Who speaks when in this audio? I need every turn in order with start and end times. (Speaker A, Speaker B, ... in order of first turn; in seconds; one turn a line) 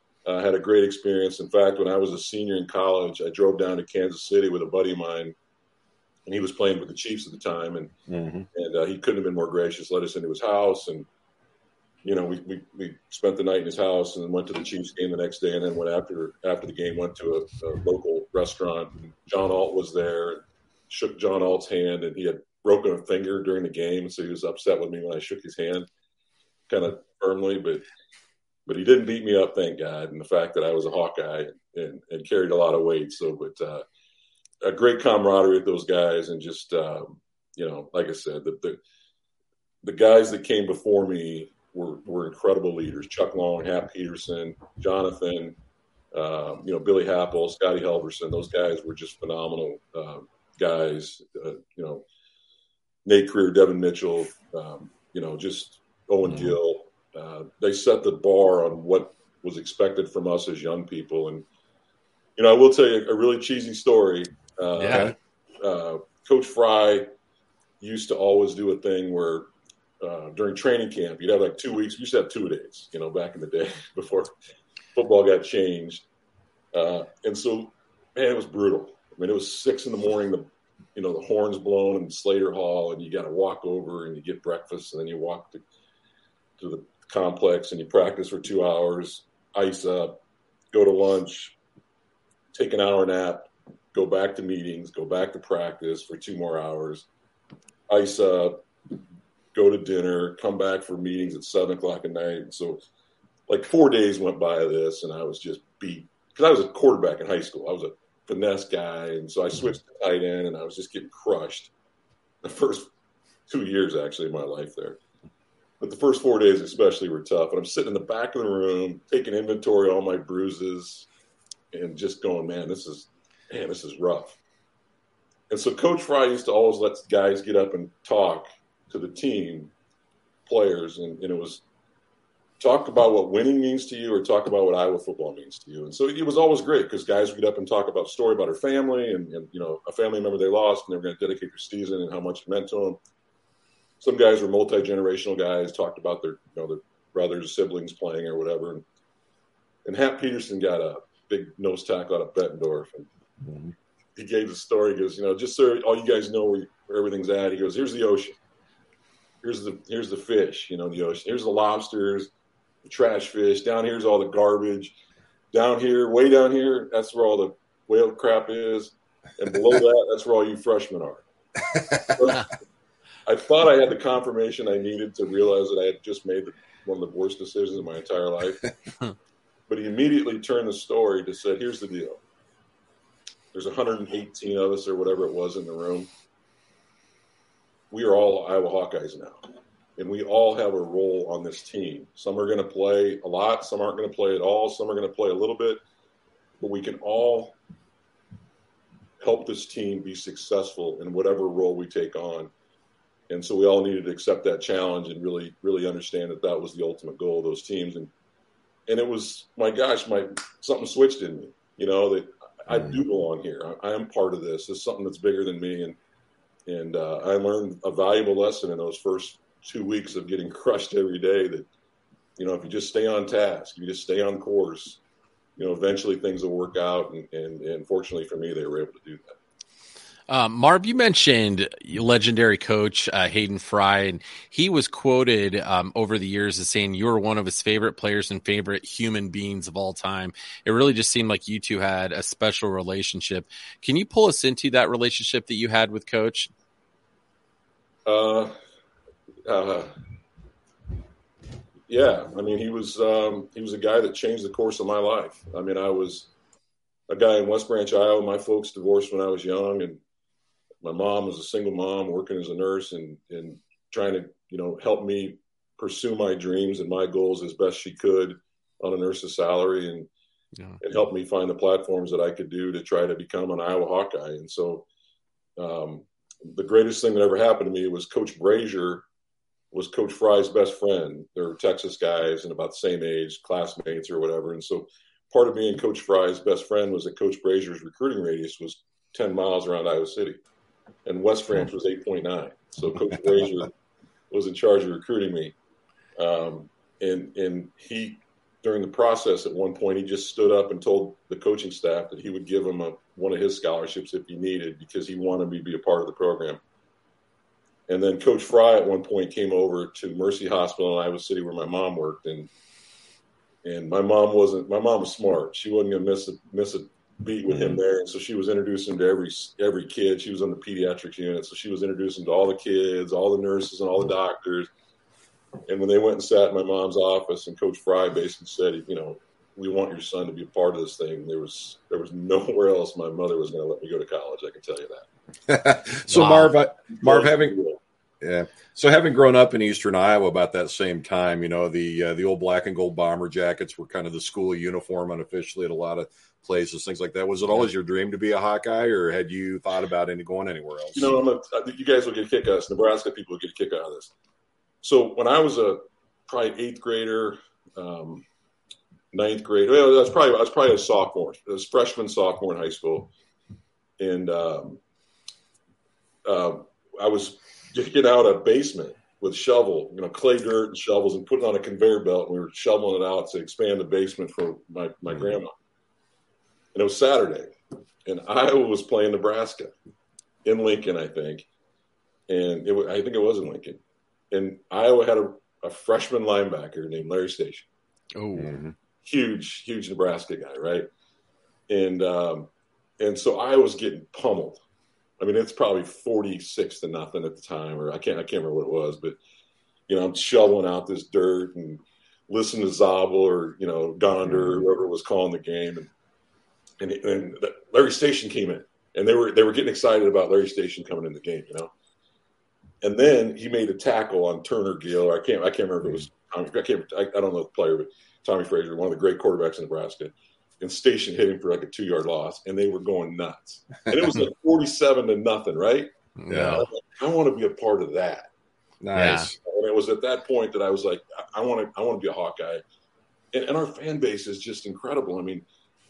Speaker A: 0.2-5.3
Speaker A: 6.3-7.9
Speaker B: 8.1-8.5
Speaker A: 8.5-11.1
Speaker A: 12.0-25.9
Speaker A: 26.7-27.8
Speaker A: 28.7-33.9
Speaker A: 34.6-38.8
Speaker A: 39.8-45.5
Speaker A: 46.1-52.0
Speaker A: 53.0-61.5
Speaker B: 56.3-56.5
Speaker A: 62.4-67.1
Speaker C: 64.8-65.1
Speaker B: 64.9-65.2
Speaker A: 67.8-69.5
Speaker A: 70.0-74.3
Speaker A: 75.0-76.0
Speaker A: 76.7-85.6
Speaker A: 86.6-90.2
Speaker A: 90.7-91.5
Speaker A: 92.5-97.1
Speaker A: 97.9-98.6
Speaker A: 99.5-102.8
Speaker A: 103.5-111.7
Speaker A: 112.4-112.9
Speaker A: 113.5-115.0
Speaker A: 115.8-121.1
Speaker A: 121.7-124.4
Speaker A: 125.5-129.7
Speaker A: 130.5-131.6
Speaker A: 132.6-143.0
Speaker A: 144.0-148.8
Speaker A: 149.8-153.1
Speaker B: 153.4-153.7
Speaker A: 154.2-158.4
Speaker A: 159.4-162.3
Speaker A: 162.8-164.9
Speaker A: 165.5-171.2
Speaker B: 171.7-172.1
Speaker A: 172.1-172.5
Speaker A: 173.3-178.6
Speaker A: 179.7-182.2
Speaker A: 183.5-186.1
Speaker A: 187.9-195.8
Speaker A: 196.6-197.6
Speaker A: 199.2-202.5
Speaker A: 203.3-208.1
Speaker A: 208.9-216.0
Speaker B: 212.7-213.0
Speaker A: 216.7-221.7
Speaker A: 222.4-225.0
Speaker A: 225.6-229.4
Speaker C: 230.3-246.5
Speaker A: 248.1-248.5
Speaker A: 249.4-249.9
Speaker A: 251.9-256.3
Speaker A: 257.1-260.0
Speaker A: 260.8-270.1
Speaker A: 270.8-274.9
Speaker A: 275.6-279.0
Speaker A: 279.7-290.4
Speaker A: 291.1-293.7
Speaker A: 294.3-295.5
Speaker A: 296.2-306.6
Speaker A: 307.9-312.5
Speaker A: 313.6-324.7
Speaker B: 317.5-317.8
Speaker A: 325.7-335.1
Speaker B: 335.5-337.6
Speaker C: 336.1-336.6
Speaker A: 336.9-337.8
Speaker B: 338.2-351.1
Speaker A: 350.9-354.1
Speaker A: 354.8-358.2
Speaker A: 359.1-363.1
Speaker A: 364.0-364.8
Speaker A: 366.2-375.5
Speaker A: 376.7-377.5
Speaker A: 378.1-379.7
Speaker A: 380.4-381.5
Speaker A: 382.3-383.8
Speaker A: 384.3-387.7
Speaker C: 388.2-388.5
Speaker B: 388.4-388.7
Speaker A: 389.0-390.9
Speaker A: 391.7-392.5
Speaker A: 393.0-394.6
Speaker A: 395.2-399.2
Speaker A: 399.9-405.9
Speaker B: 404.3-404.7
Speaker A: 406.8-411.7
Speaker A: 412.8-425.9
Speaker C: 426.2-426.7
Speaker B: 426.3-426.6
Speaker A: 426.5-428.3
Speaker B: 428.8-429.4
Speaker C: 428.9-429.3
Speaker A: 429.4-432.6
Speaker A: 433.3-435.4